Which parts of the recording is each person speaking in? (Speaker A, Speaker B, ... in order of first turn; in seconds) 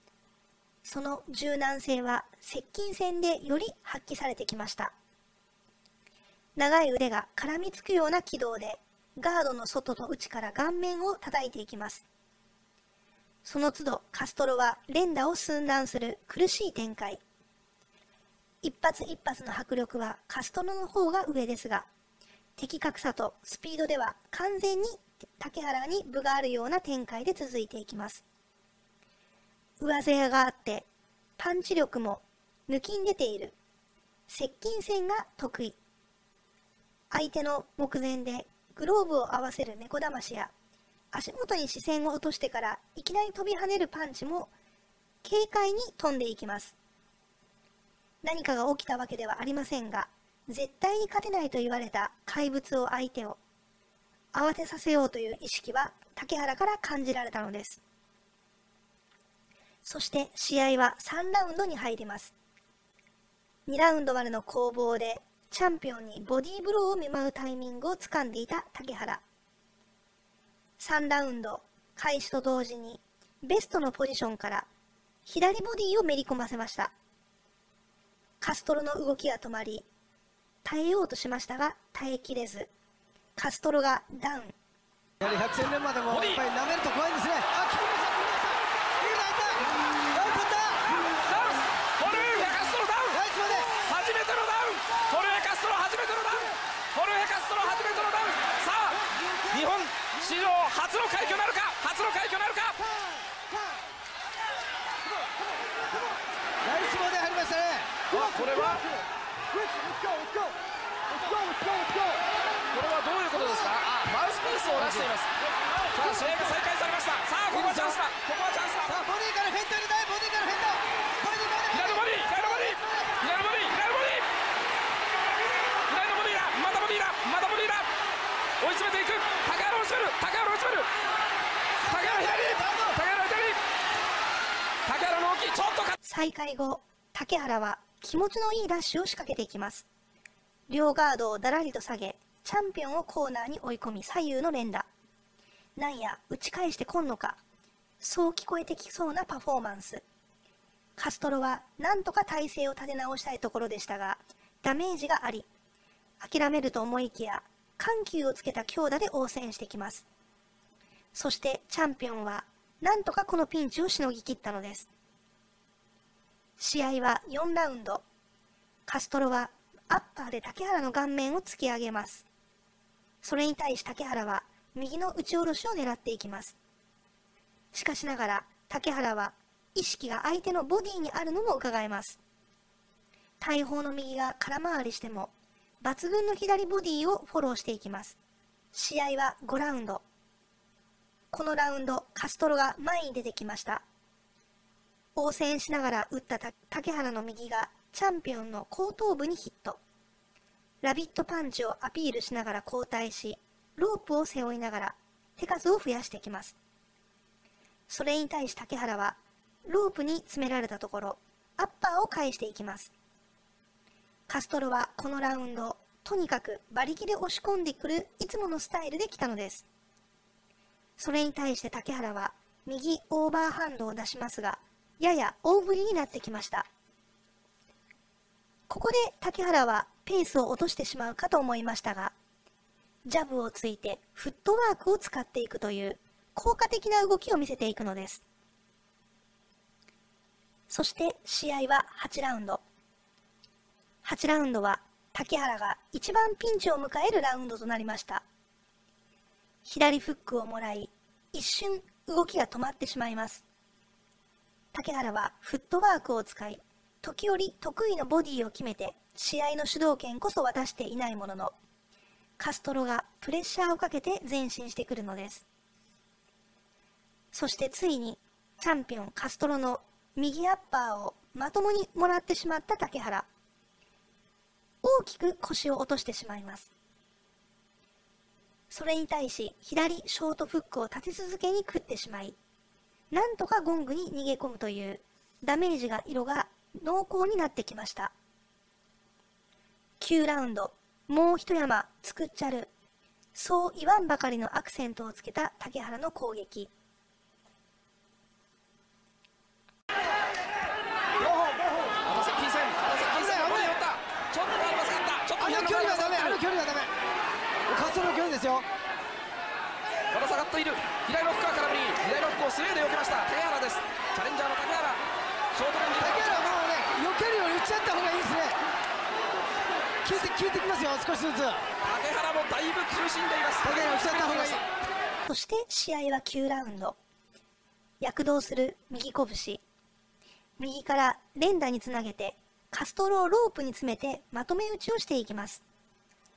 Speaker A: 0.8-4.9, 6.6-12.0, 13.4-17.2, 18.6-21.9, 22.6-28.2, 29.8-30.9, 31.4-33.6, 34.3-35.8, 37.1-40.5, 41.1-44.5, 45.2-46.8, 48.2-53.4, 54.3-57.8, 59.8-62.3, 63.7-69.2, 70.8-74.7, 75.2-76.9, 78.4-79.9, 80.6-82.7, 83.4-84.5, 136.0-139.9, 140.7-144.9, 145.8-147.4, 148.0-150.0, 151.0-155.5, 156.2-160.1, 161.1-164.9, 166.6-168.0, 168.9-172.3, 173.2-176.6, 177.7-182.2, 183.4-188.2, 188.7-190.0, 191.3-193.8, 195.2-199.8, 200.8-206.6, 207.9-212.9, 214.3-219.7, 221.0-226.7, 228.7-232.1, 233.1-238.2, 240.7-242.6, 244.0-248.2, 249.7-253.4, 254.7-261.6, 262.4-265.5, 267.3-273.3, 274.8-276.7, 278.7-282.4, 283.1-288.1, 290.0-292.7, 293.3-296.7, 325.3-327.0, 328.0-329.6, 330.6-335.6
Speaker B: 85.2-90.8, 93.1-93.8, 106.6-108.2, 109.8-110.5, 111.3-112.2, 117.5-118.0, 118.9-123.0, 131.9-132.9, 303.1-303.8, 305.4-306.9, 307.7-308.7, 316.0-318.6, 320.0-321.6, 323.6-324.6
Speaker C: 86.1-86.4, 91.1-93.2, 93.8-102.8, 108.1-108.9, 112.7-115.3, 115.9-119.0, 121.7-124.3, 125.9-127.9, 128.6-130.9, 131.8-133.6, 134.9-135.9, 302.1-306.4, 310.1-315.0, 315.5-316.4, 321.8-324.6